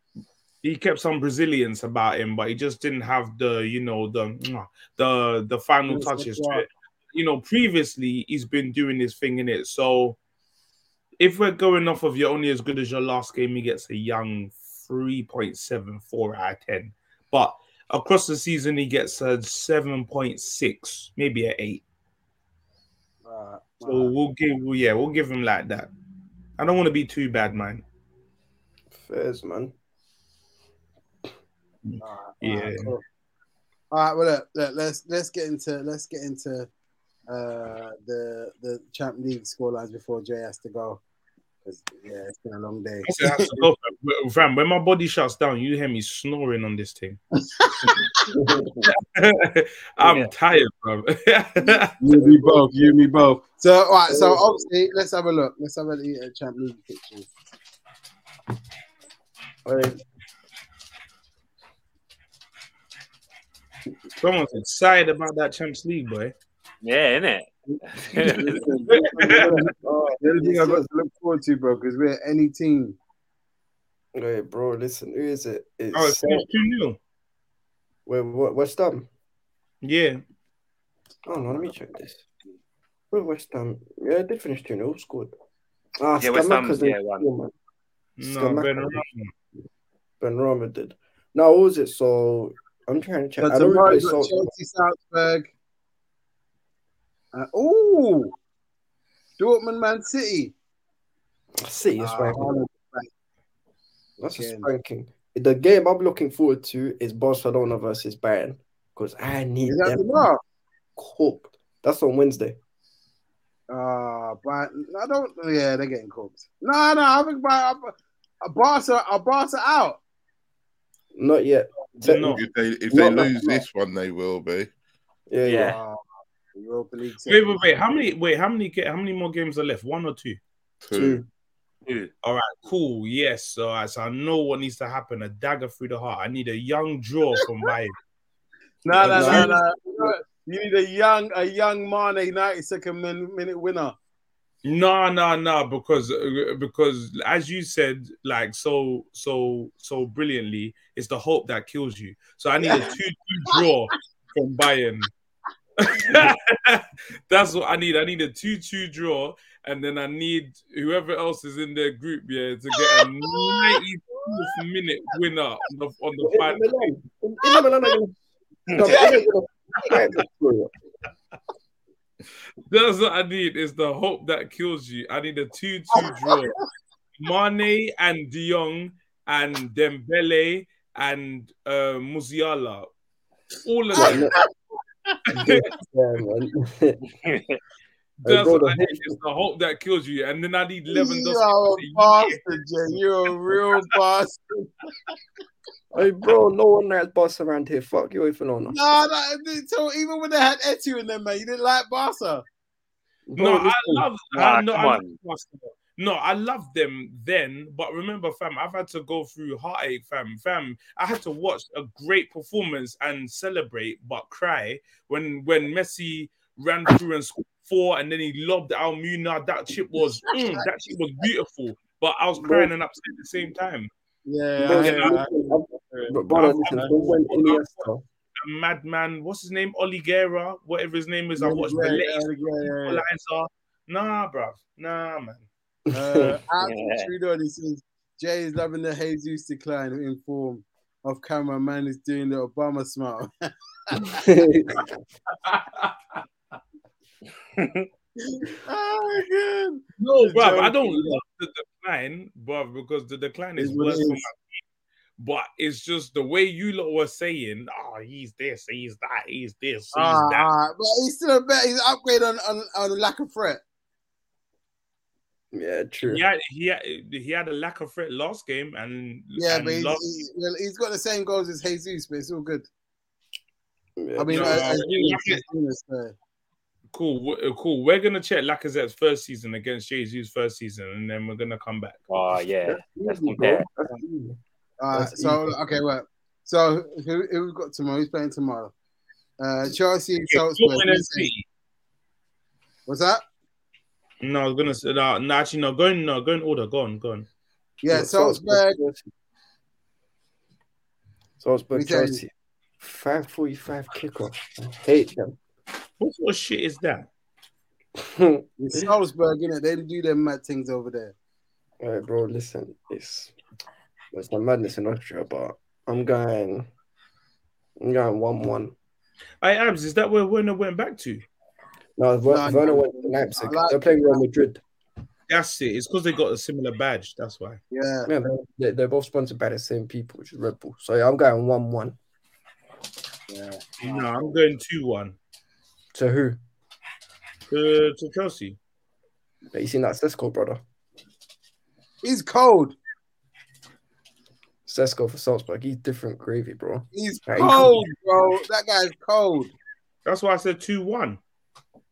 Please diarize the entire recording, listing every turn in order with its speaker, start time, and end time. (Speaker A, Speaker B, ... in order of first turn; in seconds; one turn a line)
Speaker A: 0.6-10.2
Speaker B: 5.9-6.6
Speaker A: 11.2-21.8
Speaker B: 23.2-24.1
Speaker A: 23.8-25.9
Speaker A: 26.6-27.8
Speaker C: 28.9-29.7
Speaker A: 31.8-32.9
Speaker B: 32.0-33.0
Speaker B: 33.9-36.7
Speaker B: 37.3-41.0
Speaker B: 41.6-43.6
Speaker A: 43.0-47.2
Speaker B: 47.6-48.3
Speaker C: 48.4-48.7
Speaker A: 48.8-51.9
Speaker D: 50.0-50.3
Speaker B: 52.0-57.3
Speaker C: 52.1-52.9
Speaker C: 54.1-54.5
Speaker C: 59.6-60.0
Speaker A: 64.2-66.3
Speaker D: 66.8-68.6
Speaker B: 68.2-73.0
Speaker A: 68.9-69.6
Speaker C: 69.2-70.9
Speaker C: 74.1-76.5
Speaker A: 75.9-77.0
Speaker C: 78.0-79.1
Speaker A: 79.8-80.2
Speaker C: 81.2-82.2
Speaker C: 83.1-85.3
Speaker C: 86.0-87.5
Speaker D: 86.2-87.3
Speaker A: 88.2-89.3
Speaker C: 88.2-89.0
Speaker C: 90.2-94.5
Speaker B: 93.4-95.5
Speaker B: 97.3-98.3
Speaker B: 99.4-100.5
Speaker C: 101.6-102.6
Speaker B: 102.0-103.1
Speaker C: 104.2-110.3
Speaker B: 104.3-104.7
Speaker B: 109.7-110.4
Speaker C: 111.0-112.6
Speaker B: 113.7-120.0
Speaker C: 121.1-123.6
Speaker A: 122.0-122.4
Speaker E: 122.3-124.7
Speaker C: 125.3-125.8
Speaker D: 125.4-125.8
Speaker B: 125.6-126.0
Speaker B: 126.5-127.6
Speaker A: 127.2-130.4
Speaker E: 130.8-131.2
Speaker C: 130.9-131.2
Speaker D: 131.8-132.1
Speaker A: 132.2-137.9
Speaker B: 138.8-143.9
Speaker A: 138.9-139.6
Speaker C: 139.0-139.6
Speaker A: 144.6-155.1
Speaker B: 152.6-152.9
Speaker A: 155.8-166.9
Speaker B: 162.9-163.8
Speaker C: 166.2-168.1
Speaker C: 168.7-170.7
Speaker B: 168.8-169.2
Speaker A: 172.7-176.6
Speaker B: 175.9-176.2
Speaker A: 177.2-182.9
Speaker A: 183.6-184.3
Speaker C: 183.9-184.3
Speaker B: 183.9-184.4
Speaker A: 185.3-185.7
Speaker C: 185.3-187.0
Speaker D: 187.2-187.6
Speaker A: 188.2-192.4
Speaker C: 188.2-189.2
Speaker B: 190.9-194.8
Speaker A: 193.5-193.8
Speaker C: 195.9-198.8
Speaker B: 198.7-202.4
Speaker C: 203.3-204.1
Speaker A: 203.4-223.9
Speaker D: 204.3-205.2
Speaker C: 222.4-222.7
Speaker B: 224.2-226.2
Speaker C: 224.6-228.0
Speaker A: 224.7-225.2
Speaker A: 226.3-227.7
Speaker A: 228.4-235.4
Speaker B: 231.4-233.0
Speaker C: 235.9-236.4
Speaker B: 235.9-243.3
Speaker D: 236.6-237.1
Speaker B: 243.9-244.2
Speaker C: 244.1-244.9
Speaker A: 245.3-246.2
Speaker D: 247.6-247.9
Speaker B: 248.2-251.2
Speaker A: 250.0-254.4
Speaker B: 253.6-254.3
Speaker A: 255.2-260.5
Speaker B: 259.9-263.6
Speaker C: 265.5-266.2
Speaker A: 266.0-270.1
Speaker B: 269.4-272.6
Speaker C: 274.0-274.8
Speaker B: 274.2-276.1
Speaker A: 274.3-275.4
Speaker A: 276.9-282.0
Speaker D: 282.1-283.6
Speaker C: 282.6-284.4
Speaker B: 284.8-288.7
Speaker C: 284.9-285.6
Speaker B: 289.4-291.3
Speaker A: 290.3-291.4
Speaker B: 292.9-293.2
Speaker A: 294.2-297.3
Speaker B: 297.8-298.8
Speaker C: 297.9-299.1
Speaker C: 301.4-305.4
Speaker B: 301.7-302.2
Speaker A: 306.0-307.1
Speaker C: 307.9-308.9
Speaker B: 308.6-311.1
Speaker C: 311.8-313.3
Speaker C: 314.1-316.7
Speaker C: 317.8-318.7
Speaker A: 319.4-321.2
Speaker C: 322.0-324.6
Speaker B: 322.3-324.2
Speaker A: 325.3-327.6
Speaker B: 327.7-328.1
Speaker C: 328.1-332.0
Speaker B: 333.3-334.4
Speaker A: 333.8-335.2
Speaker C: 335.9-336.4
Speaker A: 337.5-338.6
Speaker C: 339.5-340.6
Speaker B: 342.0-342.8
Speaker C: 344.6-347.8
Speaker B: 346.9-349.5
Speaker A: 350.1-351.2